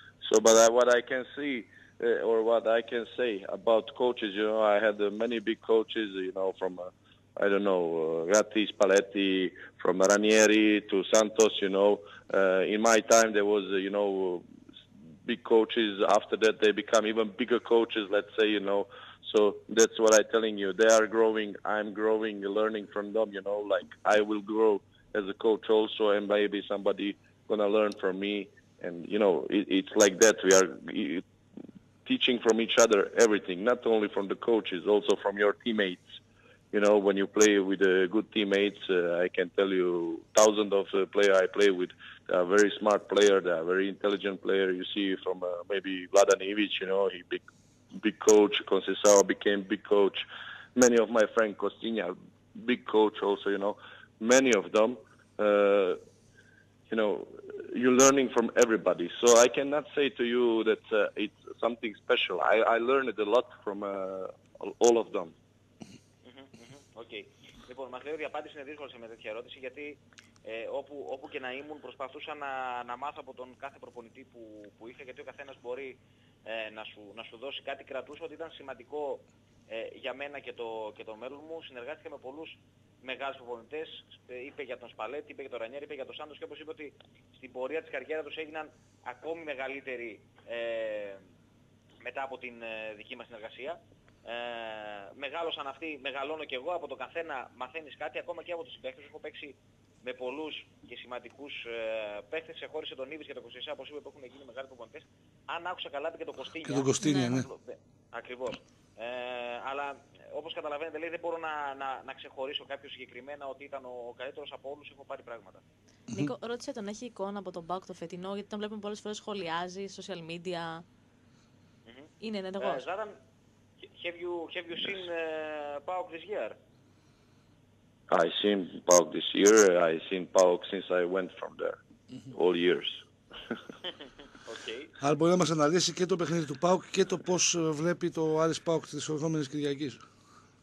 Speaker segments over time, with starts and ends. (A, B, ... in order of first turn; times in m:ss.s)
0:00.2-0:14.4 A
0:15.2-0:31.2 A
0:32.0-0:36.0 A
0:36.7-0:47.4 A
0:48.0-0:56.0 A
0:56.9-1:05.3 A
1:06.2-1:31.2 B
1:32.0-1:55.6 B
1:46.6-1:47.5 C
1:47.0-1:47.4 D
1:56.1-2:00.8 D
2:01.8-2:03.2 B
2:02.2-2:02.8 D
2:04.0-2:06.6 B
2:08.1-2:11.8 A
2:12.3-2:13.0 A
2:14.4-2:14.9 B
2:15.0-2:20.0 C